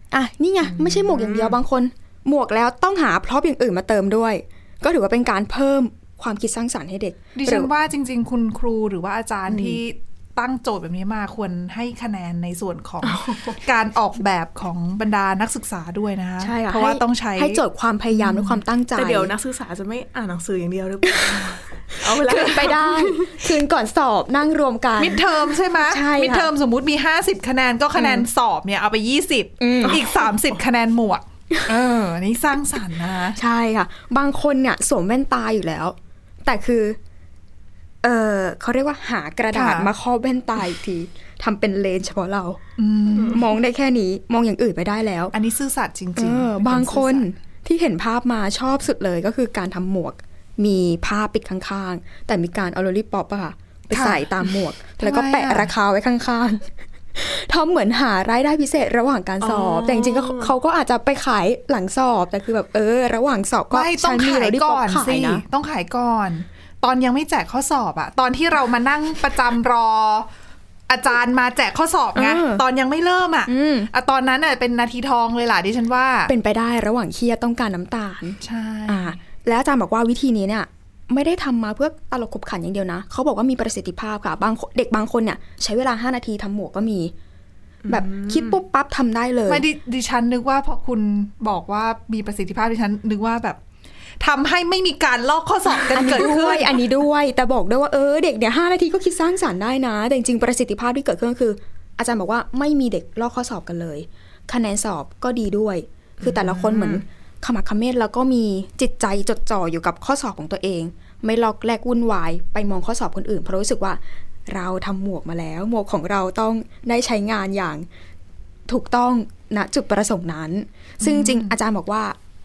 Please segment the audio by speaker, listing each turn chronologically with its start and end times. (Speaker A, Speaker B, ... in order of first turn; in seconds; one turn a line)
Speaker A: 0.1-7.7
Speaker B: 0.6-1.6
Speaker C: 7.3-18.6
Speaker A: 9.5-9.8
Speaker B: 13.0-13.6
Speaker A: 16.4-19.3
Speaker B: 18.9-23.4
Speaker A: 21.1-25.2
Speaker C: 25.0-33.4
Speaker A: 25.9-26.5
Speaker A: 28.0-28.2
Speaker A: 29.6-30.1
Speaker A: 33.4-37.0
Speaker A: 38.0-45.3
Speaker C: 39.5-39.9
Speaker C: 42.8-43.4
Speaker B: 43.1-43.4
Speaker C: 45.3-47.3
Speaker A: 46.1-65.4
Speaker C: 53.9-55.7
Speaker B: 59.4-60.5
Speaker C: 63.7-70.3
Speaker C: 70.9-76.3
Speaker A: 72.1-72.6
Speaker A: 73.5-73.9
Speaker A: 76.3-87.1
Speaker C: 78.4-79.2
Speaker B: 87.8-88.6
Speaker A: 87.9-89.6
Speaker C: 89.5-93.6
Speaker C: 94.2-96.8
Speaker A: 95.9-117.8
Speaker B: 106.2-107.0
Speaker A: 118.7-122.2
Speaker C: 121.0-121.6